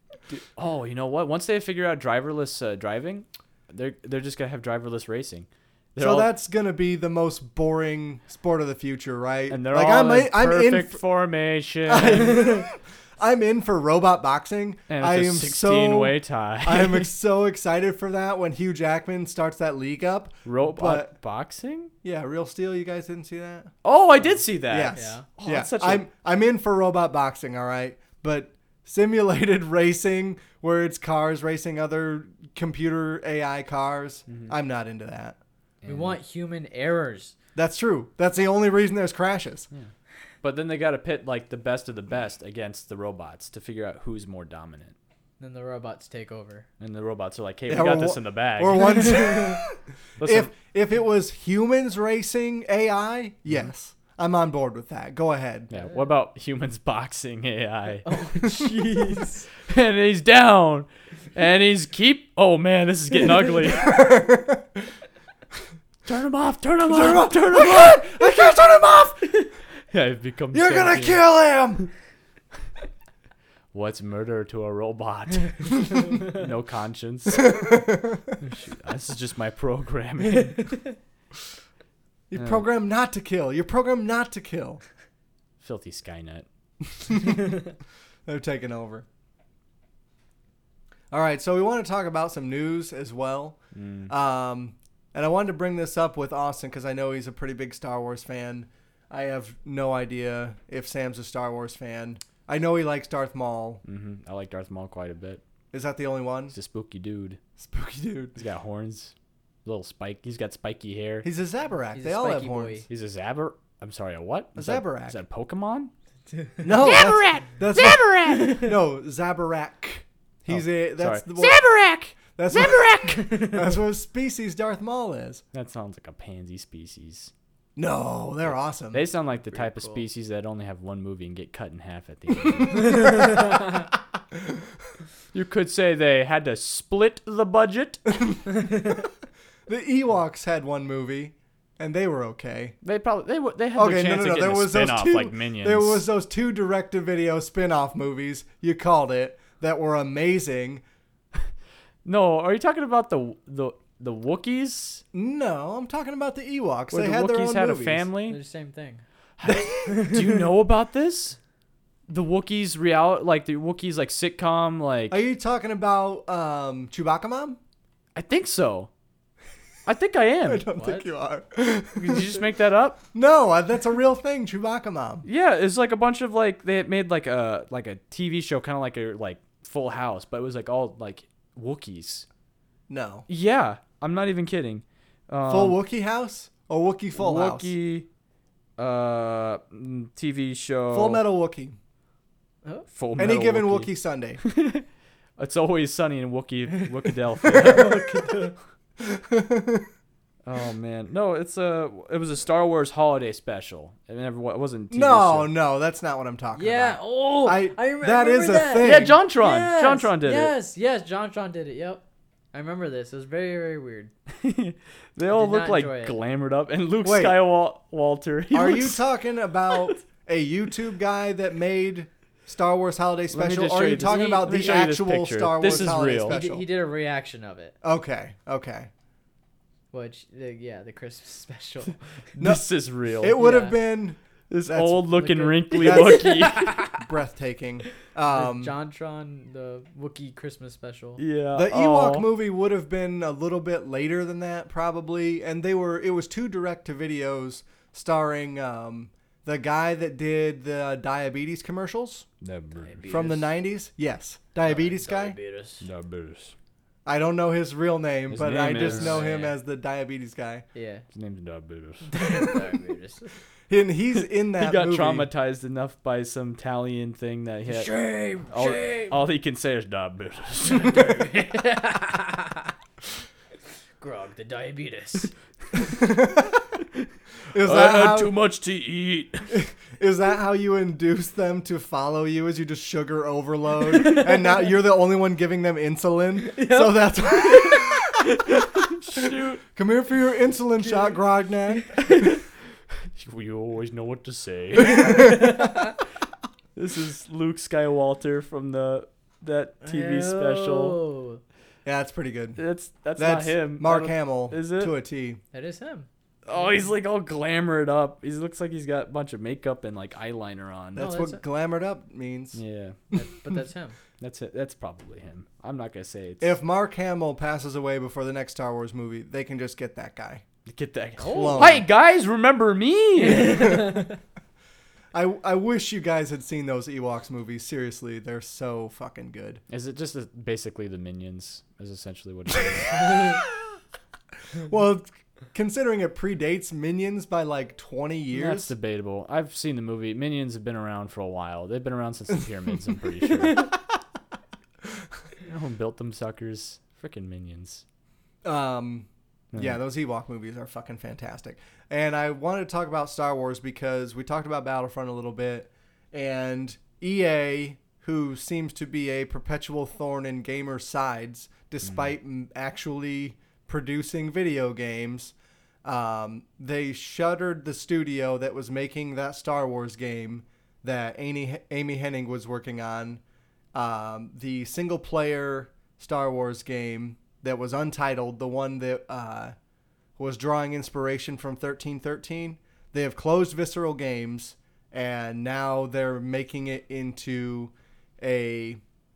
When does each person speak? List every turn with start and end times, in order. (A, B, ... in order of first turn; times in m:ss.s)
0:00.3-0:06.3 A
0:06.0-0:11.0 B
0:09.5-0:12.6 A
0:11.9-0:21.1 B
0:14.9-0:17.1 A
0:20.4-0:21.9 A
0:22.0-0:23.7 B
0:23.8-0:26.0 A
0:24.7-0:35.4 B
0:24.9-0:25.2 C
0:34.3-0:34.5 A
0:35.8-0:36.2 A
0:35.8-0:37.3 C
0:37.6-0:39.7 B
0:40.4-0:44.9 A
0:45.4-0:46.6 C
0:46.8-0:49.3 A
0:47.7-0:55.7 B
0:50.2-0:50.5 A
0:55.7-0:58.2 A
0:58.0-0:59.5 C
0:59.6-1:04.0 A
1:03.7-1:04.8 B
1:06.0-1:08.1 A
1:06.9-1:09.3 B
1:09.9-1:11.2 A
1:10.5-1:11.8 B
1:13.7-1:17.7 A
1:17.4-1:18.2 B
1:18.4-1:20.8 A
1:20.6-1:20.9 C
1:22.3-1:24.8 B
1:22.3-1:22.6 A
1:25.6-1:26.4 A
1:27.0-1:27.5 B
1:28.2-1:29.0 B
1:31.1-1:43.8 B
1:33.7-1:34.1 A
1:43.8-1:45.4 A
1:45.7-1:46.5 B
1:46.5-1:47.4 A
1:47.6-1:48.4 B
1:48.4-1:49.1 A
1:49.6-1:51.3 A
1:51.2-1:52.8 B
1:51.9-1:52.9 C
1:52.9-1:55.9 A
1:54.6-1:55.2 B
1:56.6-2:05.4 B
1:56.7-1:58.6 A
2:00.5-2:03.5 A
2:05.5-2:07.3 A
2:07.8-2:09.0 B
2:08.9-2:13.2 A
2:09.5-2:10.0 C
2:12.8-2:13.1 B
2:15.3-2:18.1 A
2:19.7-2:22.8 B
2:22.8-2:26.0 A
2:23.7-2:30.8 B
2:32.0-2:35.0 A
2:35.1-2:38.1 B
2:36.9-2:38.4 A
2:38.3-2:39.0 C
2:39.4-2:41.4 A
2:39.4-2:40.0 B
2:39.9-2:40.1 C
2:42.1-2:45.2 A
2:45.1-2:47.6 B
2:48.1-2:48.9 A
2:49.8-2:50.6 A
2:50.4-2:52.4 B
2:50.8-2:51.1 C
2:51.9-2:53.0 A
2:53.1-2:55.2 B
2:55.2-3:02.2 A
3:02.9-3:03.2 B
3:03.3-3:05.8 A
3:05.5-3:07.7 B
3:07.1-3:08.1 A
3:08.8-3:11.2 A
3:10.9-3:11.8 B
3:12.9-3:13.9 A
3:13.2-3:14.4 B
3:14.4-3:14.8 A
3:15.4-3:18.4 A
3:17.5-3:18.5 C
3:19.0-3:19.9 B
3:20.4-3:25.5 A
3:24.9-3:29.2 B
3:26.6-3:34.1 C
3:28.8-3:30.5 A
3:34.4-3:39.0 A
3:35.3-3:36.1 C
3:37.0-3:37.4 B
3:38.5-3:46.6 B
3:39.7-3:40.0 A
3:43.3-3:46.4 A
3:46.3-3:47.7 C
3:47.8-3:48.9 B
3:49.9-3:52.0 C
3:52.4-3:52.6 B
3:52.4-3:53.4 A
3:53.2-3:55.0 B
3:53.3-3:53.8 C
3:54.5-3:56.9 A
3:55.1-3:57.0 C
3:55.7-3:58.7 B
3:58.3-4:01.2 C
4:01.2-4:02.3 A
4:01.5-4:12.3 B
4:12.4-4:13.0 A
4:12.8-4:13.5 C
4:13.0-4:15.4 B
4:14.6-4:15.8 C
4:15.8-4:16.5 A
4:17.0-4:20.6 B
4:18.3-4:19.3 A
4:18.8-4:19.5 C
4:20.7-4:21.0 C
4:21.1-4:22.2 A
4:22.1-4:23.3 C
4:23.7-4:25.3 B
4:24.6-4:31.5 A
4:27.7-4:29.1 C
4:30.6-4:32.7 C
4:34.0-4:35.3 C
4:35.9-4:36.6 B
4:37.5-4:38.3 B
4:37.6-4:39.5 A
4:39.5-4:48.2 B
4:46.5-4:47.8 C
4:48.6-4:49.6 A
4:49.2-4:52.1 B
4:52.0-4:52.4 A
4:53.1-4:55.3 A
4:54.9-4:55.4 B
4:55.0-4:55.9 C
4:56.8-5:01.0 A
4:59.8-5:01.4 C
5:01.8-5:02.6 B
5:02.6-5:04.9 A
5:03.2-5:05.4 B
5:05.5-5:06.8 C
5:06.4-5:11.1 A
5:11.0-5:11.4 C
5:11.0-5:12.6 B
5:12.5-5:13.1 A
5:13.1-5:14.0 C
5:14.2-5:16.6 A
5:16.4-5:20.4 B
5:20.6-5:23.9 A
5:21.2-5:21.7 C
5:21.2-5:21.8 B
5:23.4-5:24.1 C
5:25.1-5:29.6 B
5:29.7-5:33.2 A
5:34.6-5:38.7 B
5:38.3-5:43.7 A
5:45.4-5:47.8 A
5:48.4-6:13.2 B
6:01.8-6:02.1 A
6:13.7-6:19.5 B
6:20.2-6:28.8 B